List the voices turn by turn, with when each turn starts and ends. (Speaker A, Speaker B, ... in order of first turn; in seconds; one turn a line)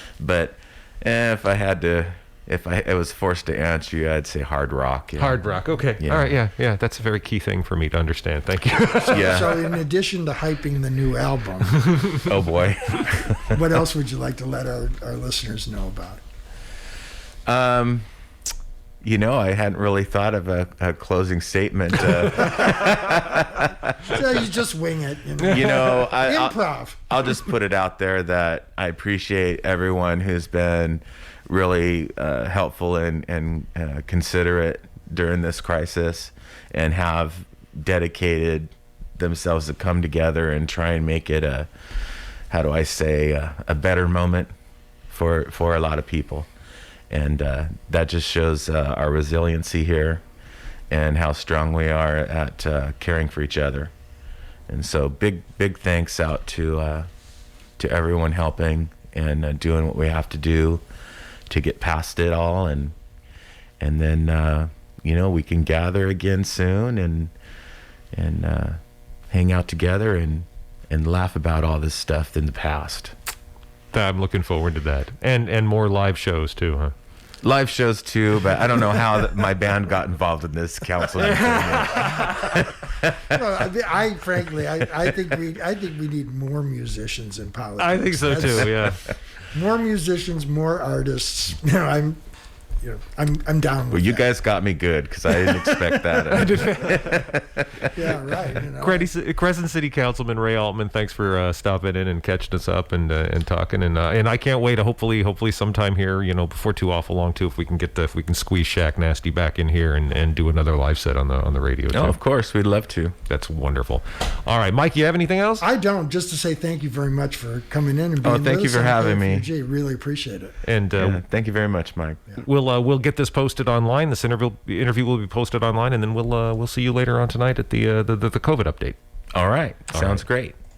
Speaker A: 0.2-5.4
Speaker B: 5.2-9.5
Speaker A: 6.0-6.4
Speaker C: 9.1-11.9
Speaker A: 9.1-9.6
Speaker A: 12.1-13.6
Speaker C: 13.5-16.2
Speaker A: 17.5-18.1
Speaker A: 19.0-24.1
Speaker C: 24.0-27.2
Speaker A: 25.4-26.6
Speaker A: 27.1-41.7
Speaker A: 42.5-44.5
Speaker A: 45.1-46.5
Speaker A: 47.1-50.2
Speaker A: 50.9-53.9
Speaker A: 54.7-57.1
Speaker A: 57.8-60.8
Speaker A: 61.5-63.0
Speaker A: 63.8-67.3
Speaker A: 68.1-68.8
Speaker A: 69.3-73.1
Speaker B: 73.9-76.9
Speaker A: 77.4-83.1
Speaker B: 81.1-82.6
Speaker C: 83.2-88.9
Speaker B: 87.8-89.0
Speaker C: 89.5-92.2
Speaker C: 92.8-94.3
Speaker A: 93.9-97.7
Speaker B: 95.4-97.4
Speaker C: 97.8-99.1
Speaker B: 98.8-112.2
Speaker A: 111.9-113.2
Speaker B: 113.3-115.7
Speaker C: 115.6-120.5
Speaker A: 118.2-119.5
Speaker B: 120.6-121.2
Speaker A: 121.0-122.3
Speaker B: 122.4-129.0
Speaker A: 129.3-130.6
Speaker B: 129.9-130.2